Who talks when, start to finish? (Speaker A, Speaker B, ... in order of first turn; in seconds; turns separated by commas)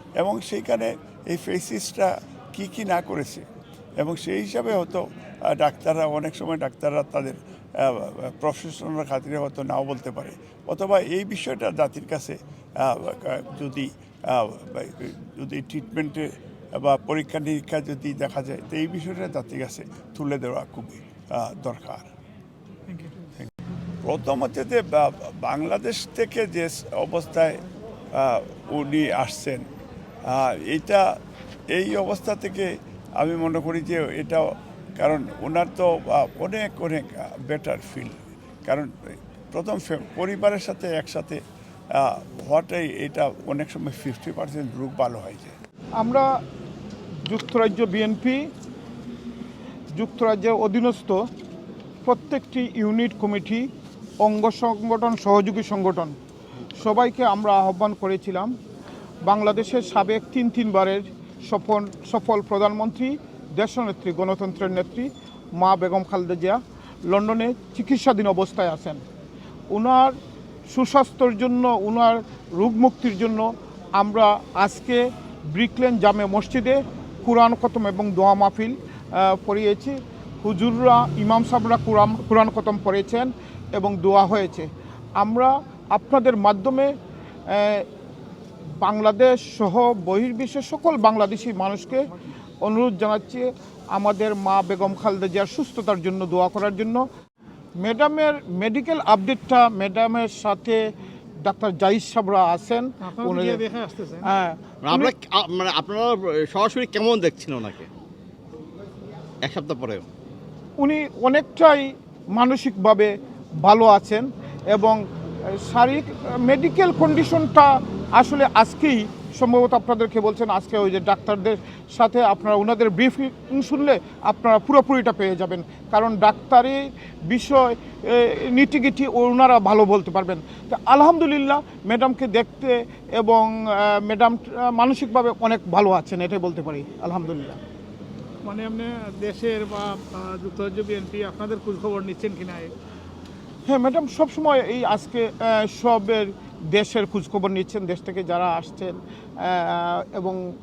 Speaker A: 0.2-3.5, Speaker A: 4.0-22.1, Speaker A: 24.1-27.6, Speaker A: 28.1-29.7, Speaker A: 30.2-31.2, Speaker A: 31.7-45.6, Speaker B: 46.0-46.3, Speaker B: 47.2-48.4, Speaker B: 49.9-51.2, Speaker B: 52.0-53.7, Speaker B: 54.2-56.2, Speaker B: 56.8-58.5, Speaker B: 59.2-69.0, Speaker B: 69.7-70.2, Speaker B: 70.7-86.9, Speaker B: 87.5-87.9, Speaker B: 88.8-97.0, Speaker B: 97.8-100.8, Speaker B: 101.4-103.6, Speaker C: 103.0-104.3, Speaker B: 104.2-105.1, Speaker D: 104.8-107.9, Speaker D: 109.4-110.1, Speaker B: 110.8-137.6, Speaker C: 138.4-142.7, Speaker B: 143.7-150.4